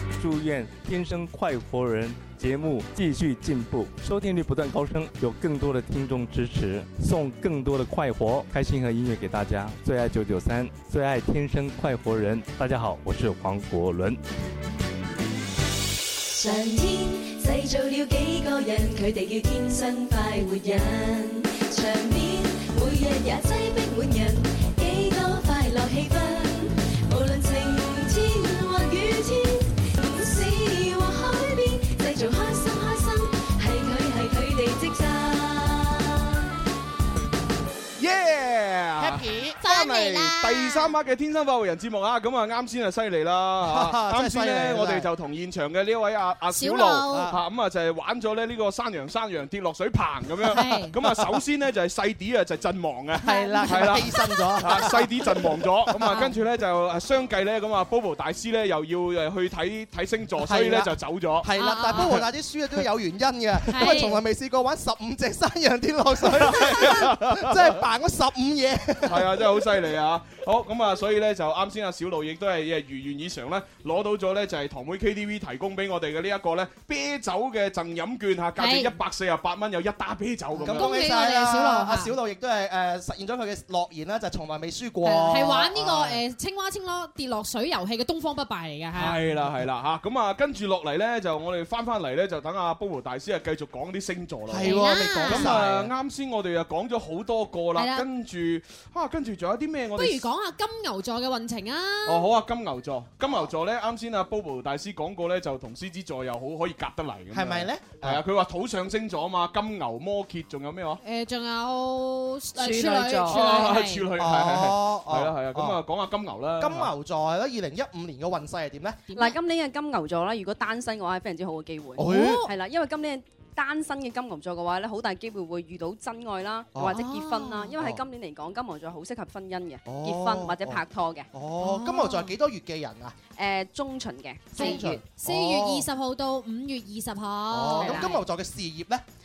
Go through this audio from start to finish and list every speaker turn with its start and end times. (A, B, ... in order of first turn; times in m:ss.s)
0:00.2-0:14.2 A
0:16.2-0:36.4 B
0:38.0-1:01.5 C
0:39.0-0:39.5 D
0:39.6-0:40.9 E
0:43.6-0:45.1 D
0:46.5-0:47.3 E
0:47.1-0:47.4 D
0:50.5-0:50.9 E
0:53.2-0:54.0 E
0:53.2-0:55.3 D
0:55.9-0:56.3 D
1:00.4-1:09.4 D
1:01.6-1:02.2 E
1:03.7-1:04.2 E
1:06.3-1:07.8 C
1:09.0-1:20.9 C
1:18.6-1:18.9 E
1:20.6-1:26.2 D
1:20.7-1:22.1 E
1:25.0-1:29.2 E
1:28.9-1:40.3 C
1:34.5-1:35.9 D
1:34.6-1:35.5 E
1:37.8-1:38.1 E
1:40.0-1:42.2 E
1:42.0-1:51.0 C
1:47.3-1:48.2 D
1:51.0-1:54.0 E
1:52.5-1:53.4 F
1:53.3-1:56.9 C
1:54.1-1:55.8 D
1:56.6-1:59.0 D
1:59.1-1:59.4 E
1:59.1-2:11.3 F
2:02.0-2:02.4 D
2:02.0-2:02.5 E
2:06.8-2:07.7 E
2:09.8-2:10.8 D
2:11.3-2:13.2 D
2:11.6-2:12.3 E
2:13.3-2:15.0 F
2:14.5-2:18.2 E
2:14.5-2:15.9 D
2:17.5-2:19.0 D
2:17.8-2:18.1 F